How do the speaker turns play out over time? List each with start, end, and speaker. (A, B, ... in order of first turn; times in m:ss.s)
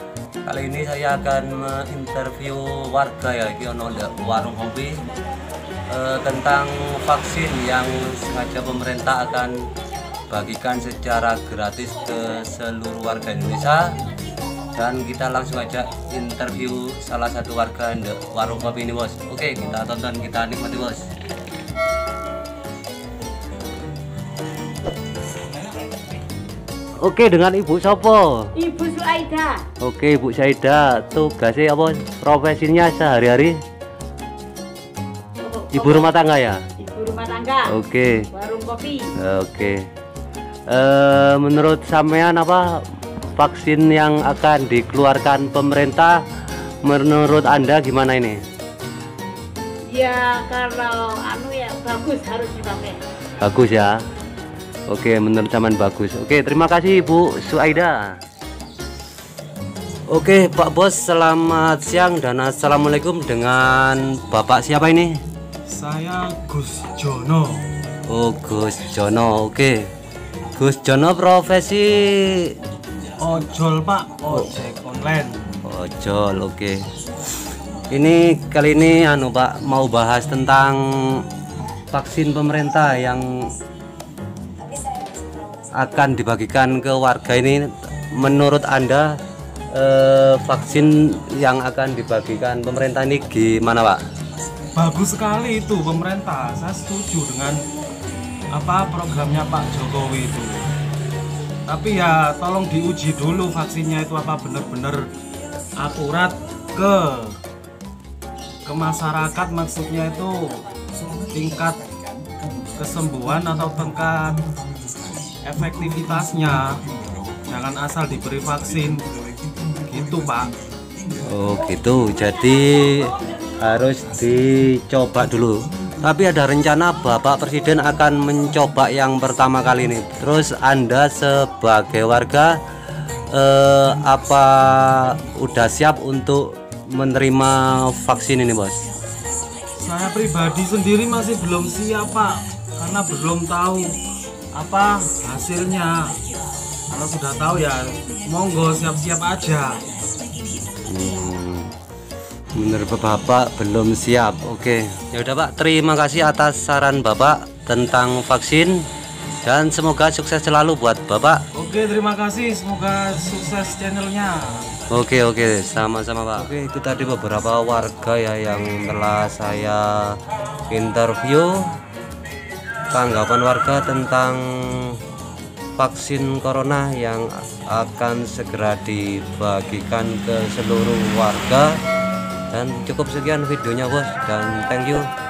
0:00.4-0:05.0 A
0:05.9-0:09.7 A
0:10.3-0:14.0 A
0:14.8-0:21.1 A
0:27.0-0:28.5 A
0:28.6-0:29.7 B
0:29.8-0:33.6 A
0:35.4-0:36.1 B
0:35.7-0:36.6 A
0:36.8-0:37.7 B
0:37.7-0:38.3 A
0:38.3-0:39.1 B
0:39.2-0:39.9 A
0:40.7-0:42.8 A
0:43.4-0:46.2 A
0:46.8-0:48.4 A
0:49.9-0:53.0 B
0:53.4-0:54.0 A
0:54.9-0:58.2 A
1:00.1-1:05.2 A
1:05.7-1:07.6 C
1:08.1-1:09.7 A
1:10.6-1:12.5 A
1:13.2-1:15.4 C
1:15.6-1:16.8 A
1:17.9-1:21.2 A
1:21.9-1:23.2 A
1:25.8-1:29.2 A
1:29.7-1:34.0 A
1:34.7-1:37.6 C
1:38.5-1:40.7 C
1:41.7-1:45.1 C
1:45.8-1:47.4 C
1:48.6-1:50.6 C
1:51.3-1:51.8 C
1:52.8-1:54.4 C
1:55.4-1:56.8 C
1:57.4-1:59.0 C
1:59.9-2:00.5 C
2:01.3-2:12.6 A
2:13.3-2:18.8 A
2:19.8-2:24.0 C
2:24.6-2:26.1 C
2:26.9-2:29.8 C
2:30.9-2:31.7 A
2:32.6-2:38.8 A
2:39.4-2:41.4 A
2:41.5-2:44.7 C
2:44.9-2:50.2 A
2:50.7-2:51.6 A
2:52.9-2:54.9 A
2:55.8-3:01.8 A
3:02.5-3:05.1 A